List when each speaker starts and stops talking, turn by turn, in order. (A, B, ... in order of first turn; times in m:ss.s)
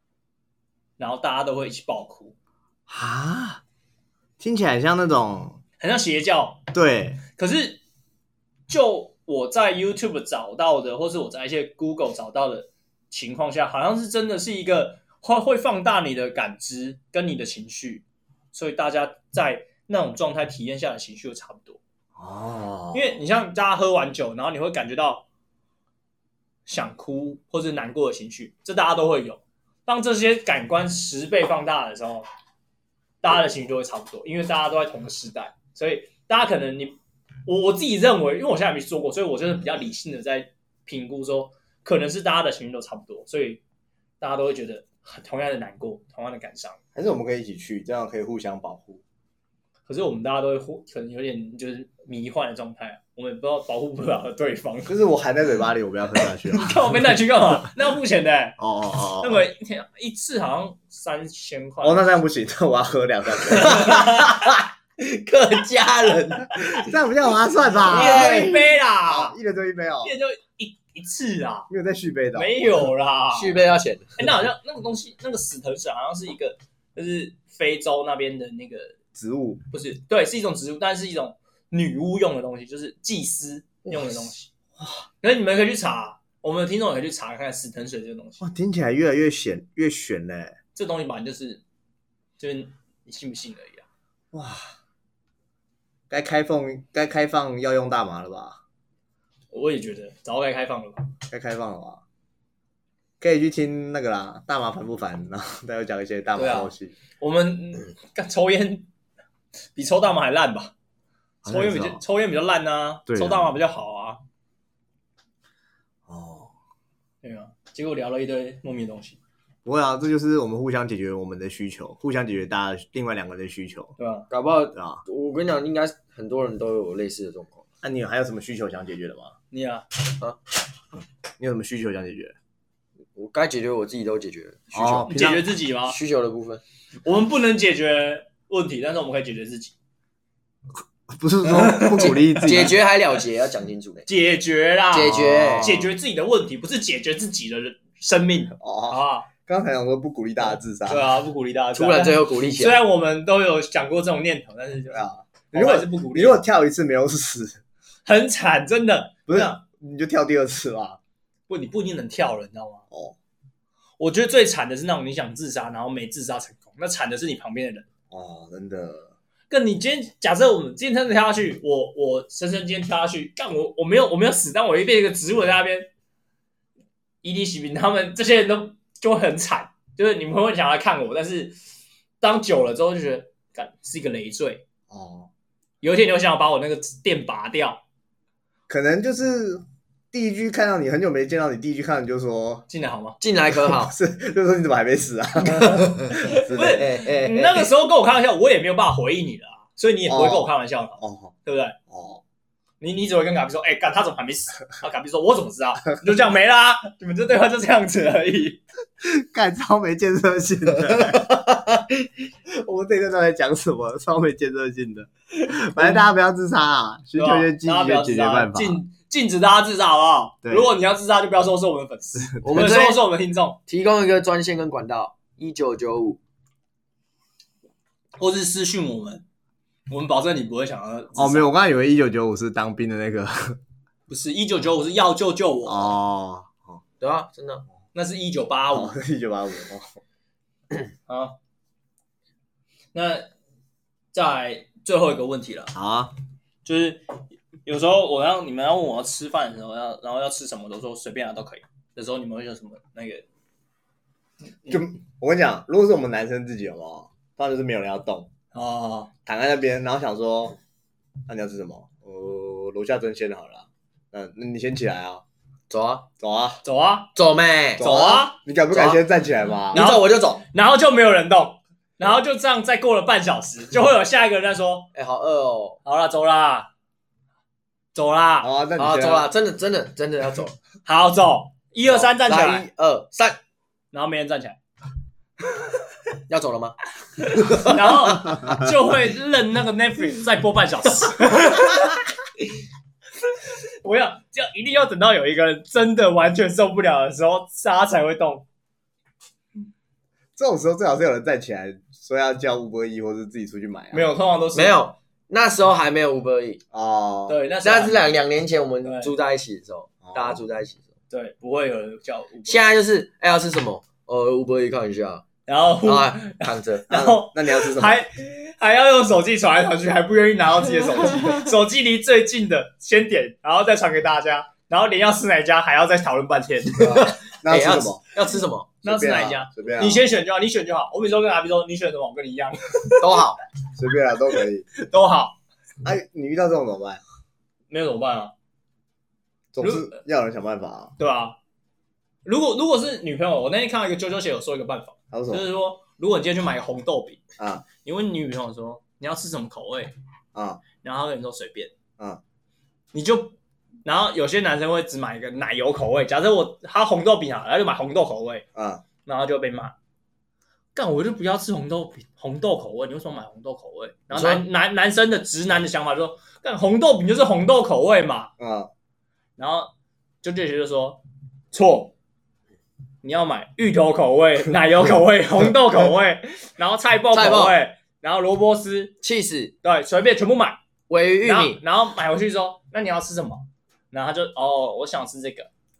0:01.0-0:02.3 A
0:02.9-0:03.6 B
0:04.4-0:05.6 B
0:05.8-0:06.6 A
0:06.7-0:07.2 B
0:07.4-0:07.8 A
0:08.7-0:21.8 A
0:22.2-0:23.2 B
0:22.9-0:25.2 A
0:26.6-0:32.3 A
0:33.2-0:43.6 A
0:44.2-0:46.8 A
0:46.9-0:49.0 B
0:49.9-0:55.0 A
0:54.9-0:56.9 B
0:56.5-0:58.6 A
0:58.6-0:59.4 B
0:59.2-1:02.1 A
1:01.8-1:04.0 B
1:03.5-1:06.9 C
1:03.8-1:04.3 A
1:06.7-1:10.1 B
1:07.8-1:08.6 C
1:07.8-1:09.4 A
1:10.0-1:11.7 A
1:11.7-1:12.8 B
1:12.3-1:13.6 A
1:13.3-1:14.2 C
1:14.2-1:19.0 A
1:19.1-1:19.6 B
1:19.7-1:24.5 A
1:23.9-1:24.3 C
1:24.8-1:25.0 B
1:25.2-1:28.4 A
1:28.4-1:30.5 B
1:30.7-1:31.6 A
1:32.4-1:33.8 A
1:34.3-1:34.7 B
1:36.1-1:38.6 B
1:39.5-1:41.1 A
1:41.3-1:42.0 B
1:43.2-1:46.9 B
1:46.3-1:48.9 A
1:49.7-1:50.7 A
1:51.4-1:52.0 B
1:51.4-1:54.2 A
1:53.1-1:53.6 B
1:56.1-1:56.5 B
1:57.2-1:59.2 A
1:59.6-2:03.9 B
2:04.0-2:04.3 A
2:04.3-2:07.6 C
2:04.8-2:05.0 B
2:07.8-2:09.3 B
2:09.5-2:09.8 A
2:11.4-2:12.4 B
2:13.1-2:15.3 C
2:14.7-2:15.5 B
2:15.0-2:16.0 A
2:15.8-2:16.6 C
2:17.0-2:19.7 A
2:21.1-2:22.8 B
2:21.4-2:22.2 A
2:22.0-2:24.0 C
2:24.0-2:29.3 A
2:24.9-2:25.7 C
2:25.0-2:25.9 B
2:28.6-2:31.1 B
2:30.9-2:36.4 A
2:31.7-2:32.8 C
2:34.9-2:37.6 B
2:38.0-2:39.6 A
2:39.3-2:41.0 B
2:41.5-2:42.8 A
2:42.9-2:43.2 B
2:44.0-2:47.9 A
2:48.1-2:49.1 B
2:49.5-2:55.9 A
2:57.2-3:01.6 A
3:02.2-3:04.6 A
3:04.9-3:05.3 B
3:05.8-3:07.8 A
3:08.7-3:12.6 B
3:12.7-3:13.2 A
3:13.2-3:13.9 C
3:13.6-3:16.9 B
3:16.1-3:21.8 A
3:16.7-3:17.7 C
3:20.1-3:21.3 B
3:21.9-3:22.2 B
3:22.8-3:28.6 A
3:29.0-3:31.8 B
3:32.5-3:38.8 B
3:37.2-3:43.6 A
3:40.4-3:40.7 B
3:42.4-3:43.0 C
3:43.7-3:46.2 C
3:48.2-3:49.2 A
3:49.9-3:51.5 A
3:51.2-3:53.6 B
3:54.1-3:56.0 A
3:55.6-3:56.8 B
3:57.0-3:57.6 C
3:57.9-3:59.0 A
3:58.7-4:00.0 B
4:01.1-4:01.3 A
4:02.9-4:03.3 A
4:04.1-4:05.7 A
4:05.7-4:06.1 B
4:06.6-4:13.2 A
4:14.7-4:18.3 B
4:18.5-4:19.1 A
4:19.2-4:20.6 B
4:21.3-4:25.2 B
4:25.7-4:26.0 C
4:26.2-4:26.6 B
4:26.6-4:27.1 A
4:27.2-4:27.9 C
4:27.8-4:29.8 B
4:27.8-4:28.4 A
4:28.7-4:29.0 C
4:29.7-4:30.4 C
4:29.7-4:34.9 A
4:34.9-4:35.8 C
4:35.8-4:36.7 A
4:37.9-4:38.5 A
4:38.4-4:39.3 B
4:38.8-4:40.6 C
4:40.8-4:42.7 A
4:41.9-4:43.4 C
4:43.9-4:44.6 A
4:46.3-4:46.8 C
4:47.2-4:52.0 A
4:47.4-4:47.7 C
4:53.3-4:58.4 A
5:00.4-5:04.1 B
5:03.9-5:04.8 A
5:04.5-5:06.6 C
5:06.7-5:07.4 B
5:07.3-5:08.2 A
5:07.6-5:10.8 C
5:08.8-5:09.1 A
5:10.0-5:10.4 B
5:11.1-5:12.7 A
5:12.4-5:15.2 C
5:15.5-5:27.1 A
5:15.8-5:16.9 C
5:16.9-5:18.0 B
5:26.8-5:28.0 B
5:26.8-5:28.7 C
5:28.8-5:30.0 B
5:28.8-5:33.1 A
5:33.0-5:33.4 C
5:33.8-5:34.7 B
5:34.8-5:35.4 A
5:35.8-5:37.0 B
5:37.7-5:38.3 A
5:39.5-5:40.9 B
5:39.6-5:40.0 A
5:41.0-5:41.4 A
5:42.2-5:49.9 A
5:45.1-5:45.4 B
5:47.4-5:47.6 B
5:50.3-5:50.6 B
5:50.8-5:51.7 A
5:52.9-5:53.3 A
5:53.8-5:58.4 A
5:58.5-5:58.8 B
5:59.0-5:59.7 A
6:00.7-6:08.3 A
6:04.1-6:04.4 C
6:08.4-6:08.7 B
6:09.4-6:09.7 A
6:10.2-6:11.0 A
6:11.5-6:11.9 A
6:13.0-6:18.9 A
6:17.1-6:17.6 C
6:19.0-6:19.5 C
6:19.6-6:20.6 A
6:20.9-6:21.6 C
6:21.2-6:25.5 A